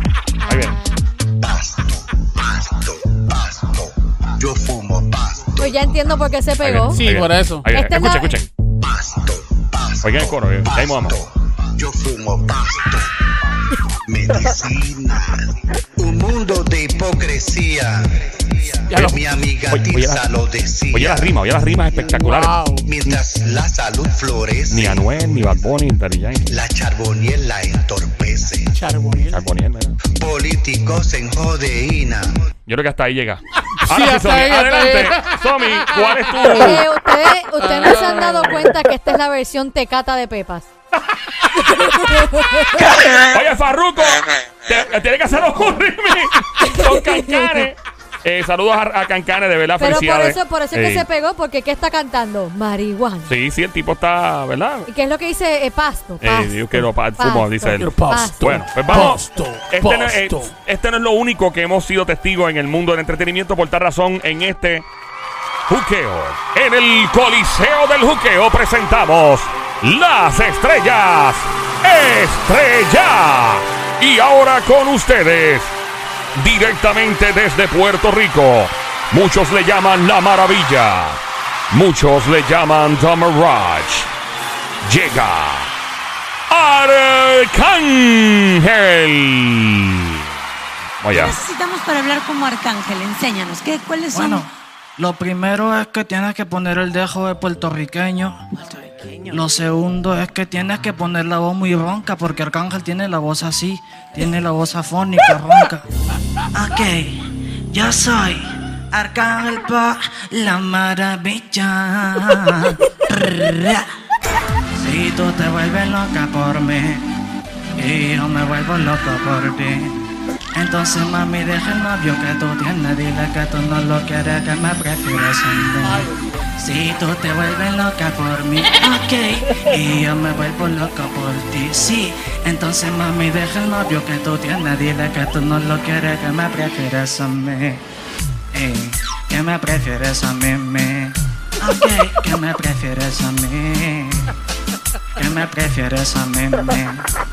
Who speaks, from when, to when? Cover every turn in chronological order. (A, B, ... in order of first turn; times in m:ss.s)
0:00.4-0:01.0 A
0:00.5-0:00.8 B
0:01.4-0:05.8 C
0:05.6-0:07.0 A
0:06.6-0:08.5 B
0:06.9-0:07.7 D
0:07.7-0:08.4 A
0:08.8-0:13.1 C
0:10.0-0:11.2 B
0:14.0-0:21.4 C
0:18.9-0:19.2 D
0:19.7-0:20.2 B
0:20.9-0:23.2 B
0:22.0-0:22.3 C
0:22.1-0:22.9 D
0:22.8-0:25.5 C
0:24.7-0:26.5 B
0:26.5-0:28.7 C
0:28.7-0:29.4 D
0:29.3-0:30.0 B
0:30.1-0:32.3 C
0:32.7-0:36.8 B
0:33.8-0:36.6 D
0:36.6-0:40.7 A
0:37.6-0:38.4 D
0:41.6-0:42.9 A
0:43.3-0:51.0 B
0:46.7-0:47.6 A
0:49.8-0:53.3 A
0:53.3-0:54.9 B
0:54.9-0:59.1 A
0:56.2-1:04.9 B
0:57.8-1:00.6 D
1:05.7-1:15.7 B
1:16.4-1:21.2 B
1:21.7-1:24.1 B
1:24.8-1:25.7 B
1:26.5-1:30.2 B
1:31.0-1:31.4 B
1:31.1-1:34.5 E
1:34.1-1:45.8 F
1:46.5-1:53.9 F
1:54.8-1:57.0 F
1:57.8-2:00.0 F
2:00.6-2:17.8 F
2:05.8-2:06.4 D
2:18.5-2:24.3 F
2:25.2-2:27.0 F